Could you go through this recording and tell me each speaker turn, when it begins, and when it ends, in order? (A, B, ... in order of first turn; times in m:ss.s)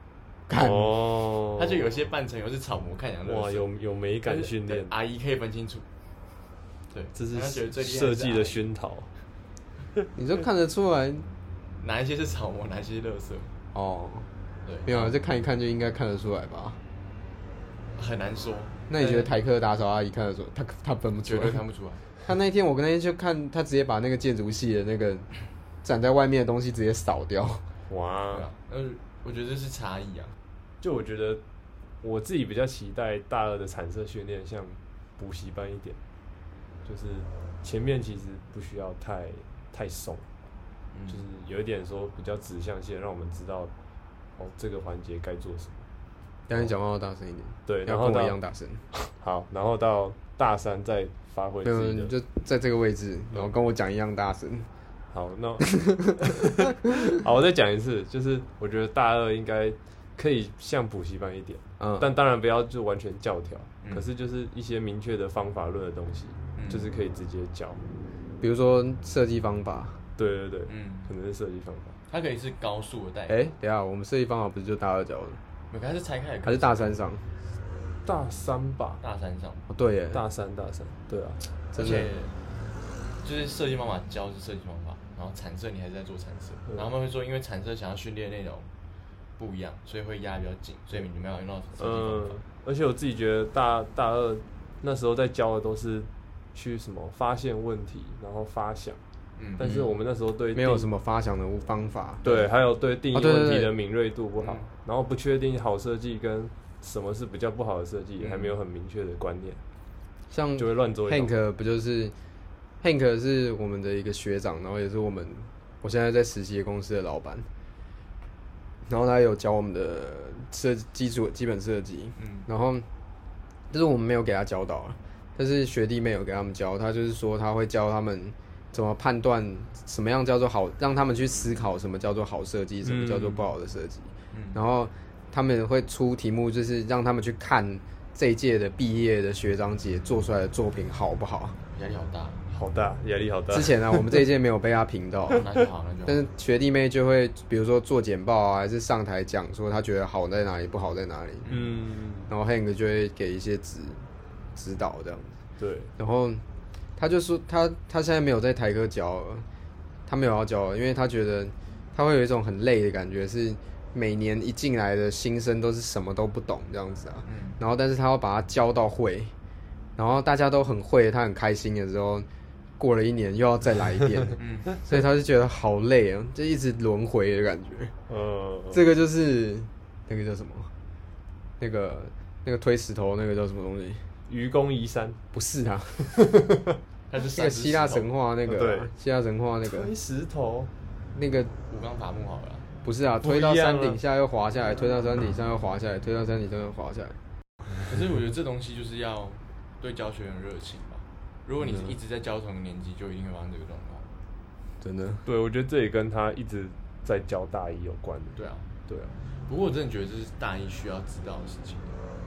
0:00.5-0:00.9 A
0:00.6-0:01.8 B
0:01.6-0:03.7 C
0:03.2-0:04.9 B
0:04.2-0:05.9 C
0:06.9-0:08.6 C
0:07.2-0:09.1 B
0:10.2-0:11.3 A
0:11.8-0:13.5 C
0:13.7-0:14.3 A
0:14.6-0:15.2 C
0:14.9-0:16.8 A
0:18.0-0:19.3 C
0:18.9-0:21.6 A
0:21.2-0:22.1 C
0:22.2-0:25.3 A
0:25.8-0:27.7 A
0:27.9-0:28.5 B
0:28.3-0:30.4 C
0:30.8-0:31.4 B
0:32.0-0:36.0 B
0:36.8-0:40.2 B
0:40.9-0:41.2 C
0:41.1-0:43.7 B
0:44.4-0:45.9 B
0:46.5-0:48.9 A
0:47.7-0:48.4 B
0:49.2-0:52.1 B
0:51.6-0:54.7 A
0:55.1-1:07.8 B
0:55.8-0:56.1 A
1:01.8-1:02.1 A
1:06.6-1:06.9 C
1:08.4-1:10.0 A
1:10.2-1:12.0 B
1:10.7-1:11.1 C
1:12.1-1:13.4 C
1:13.3-1:15.4 A
1:15.7-1:17.0 C
1:16.4-1:17.2 A
1:18.0-1:19.0 B
1:19.0-1:19.7 C
1:19.7-1:20.2 A
1:20.1-1:21.4 B
1:21.7-1:22.1 A
1:21.8-1:22.3 C
1:23.2-1:28.7 C
1:29.4-1:32.4 C
1:31.8-1:39.0 B
1:39.4-1:39.7 C
1:39.6-1:40.9 B
1:40.5-1:42.4 A
1:42.2-1:49.6 B
1:43.1-1:43.7 A
1:44.4-1:44.7 C
1:48.2-1:48.6 C
1:50.3-1:52.2 A
1:50.6-1:51.3 B
1:52.8-1:57.5 A
1:58.9-2:02.9 A
2:02.2-2:02.5 C
2:03.7-2:21.6 A
2:12.8-2:13.5 B
2:14.3-2:14.6 C
2:21.7-2:22.4 C
2:22.5-2:24.2 B
2:23.5-2:25.4 A
2:25.3-2:26.2 C
2:26.1-2:31.5 A
2:31.4-2:31.8 C
2:31.5-2:32.3 B
2:32.3-2:35.4 A
2:35.6-2:35.9 B
2:36.0-2:36.4 A
2:37.0-2:39.5 A
2:40.1-2:49.3 A
2:47.2-2:47.6 C
2:50.0-2:52.3 A
2:52.8-2:57.9 A
2:54.4-2:54.8 C
2:58.1-2:58.8 B
2:58.7-3:00.7 A
3:01.6-3:04.0 A
3:04.3-3:05.2 B
3:05.3-3:06.4 A
3:07.1-3:08.1 C
3:07.2-3:09.9 A
3:08.5-3:08.9 B
3:09.6-3:10.7 B
3:11.2-3:11.5 A
3:11.7-3:12.7 C
3:12.8-3:17.2 A
3:13.2-3:14.0 B
3:17.9-3:24.1 C
3:21.6-3:22.0 B
3:24.8-3:25.2 A
3:25.2-3:29.2 B
3:28.4-3:28.7 C
3:29.5-3:32.0 C